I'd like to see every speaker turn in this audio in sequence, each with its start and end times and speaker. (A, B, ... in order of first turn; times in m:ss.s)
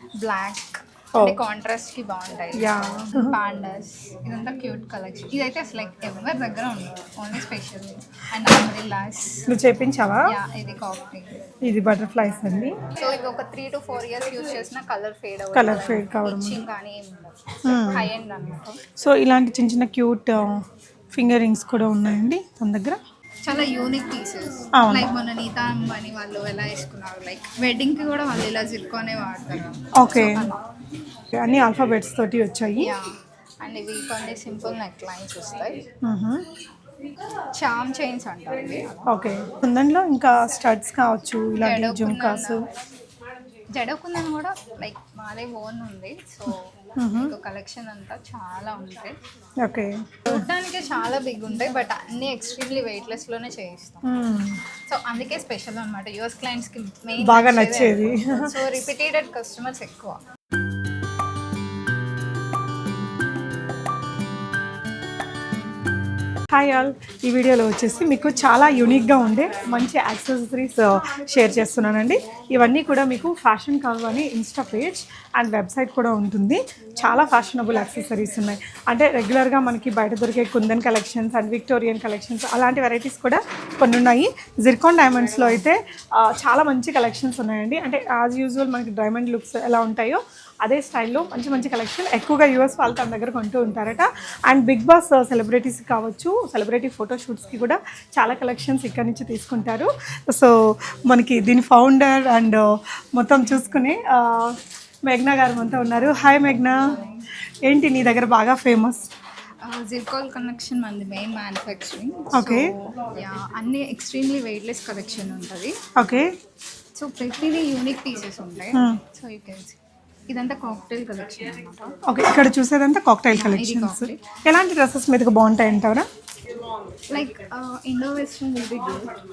0:00.2-0:09.5 A
0:01.2-0:01.4 B
0:02.5-0:03.4 B
0:09.5-0:10.3 B
0:10.2-0:11.4 A
0:11.6-0:12.8 B
0:13.0-0:18.8 A
0:15.5-0:16.6 B
0:17.6-0:18.1 B
0:19.0-0:23.0 B
0:23.4-0:30.6 A
0:24.7-0:25.1 B
0:29.9-0:30.5 B
0:31.4-0:32.9 B
0:32.8-0:35.8 A
0:36.0-0:36.4 B
0:37.6-0:39.2 A
0:39.1-0:42.6 B
0:41.6-0:42.6 A
0:43.7-0:49.2 A
0:47.0-0:47.3 B
0:49.6-0:50.4 B
0:50.3-0:54.1 A
0:54.0-0:54.6 B
0:54.9-1:00.2 A
0:57.2-0:58.6 B
1:06.5-1:40.6 B
1:41.1-1:46.9 B
1:46.8-1:47.3 A
1:47.6-1:49.1 B
1:49.6-1:55.8 A
1:52.3-1:52.7 B
1:56.0-1:56.3 B
1:57.0-1:59.8 A
1:58.7-1:59.0 B
2:00.3-2:02.0 A
2:02.0-2:06.1 B
2:03.3-2:04.2 A
2:07.1-2:09.1 A